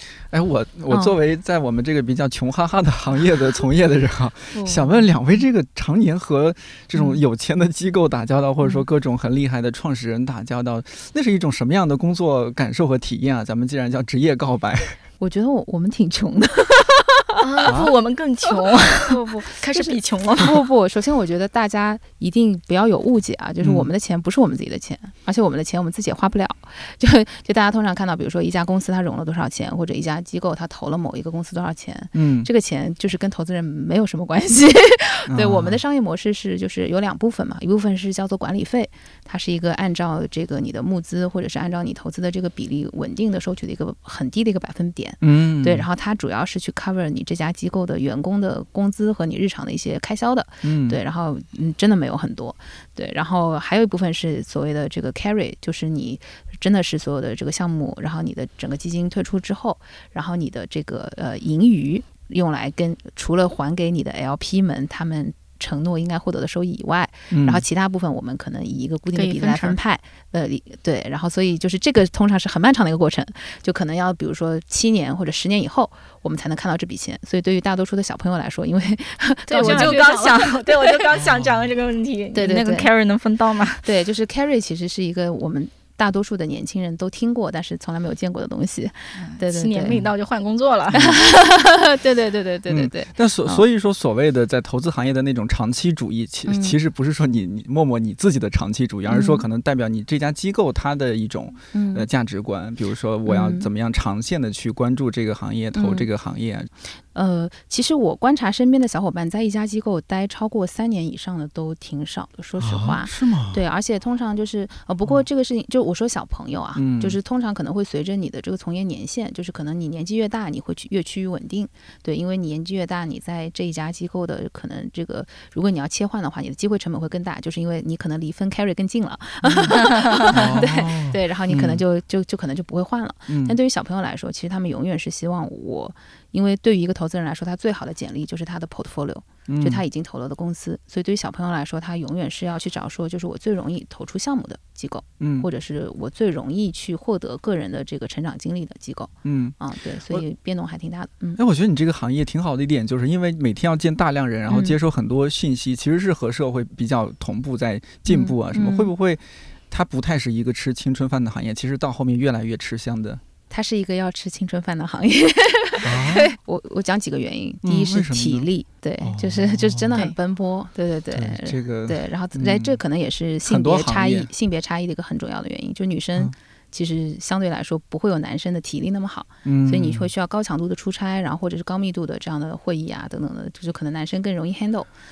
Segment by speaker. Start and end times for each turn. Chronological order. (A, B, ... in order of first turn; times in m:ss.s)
0:00.3-0:15.0 A
0:07.0-0:07.2 B
0:15.2-0:17.4 B
0:17.4-0:20.6 C
0:17.6-0:17.9 A
0:19.0-1:21.1 B
0:23.6-0:23.9 A
0:32.1-0:32.5 A
0:35.3-0:35.8 A
0:45.2-0:45.9 A
0:50.6-0:51.0 A
1:07.3-1:07.6 A
1:09.2-1:09.8 C
1:19.5-1:23.8 C
1:21.2-1:21.7 A
1:22.3-1:22.9 B
1:23.8-1:30.1 B
1:29.2-1:31.1 C
1:30.9-1:33.6 B
1:32.7-1:46.7 A
1:36.5-1:36.8 B
1:39.1-1:39.4 B
1:41.7-1:42.1 B
1:43.3-1:43.7 B
1:45.7-1:46.1 B
1:47.1-2:31.4 B
1:52.6-1:53.6 A
1:56.8-1:57.2 A
2:09.4-2:11.8 A
2:13.3-2:13.6 A
2:19.5-2:19.8 A
2:25.2-2:25.5 A
2:29.2-2:29.6 A
2:31.4-2:43.2 A
2:34.5-2:34.8 B
2:38.1-2:38.9 B
2:43.5-3:04.9 B
2:45.8-2:46.3 A
2:47.6-2:48.5 A
2:49.0-2:50.0 A
2:51.1-2:52.8 A
2:53.5-2:54.3 A
2:59.4-3:00.1 A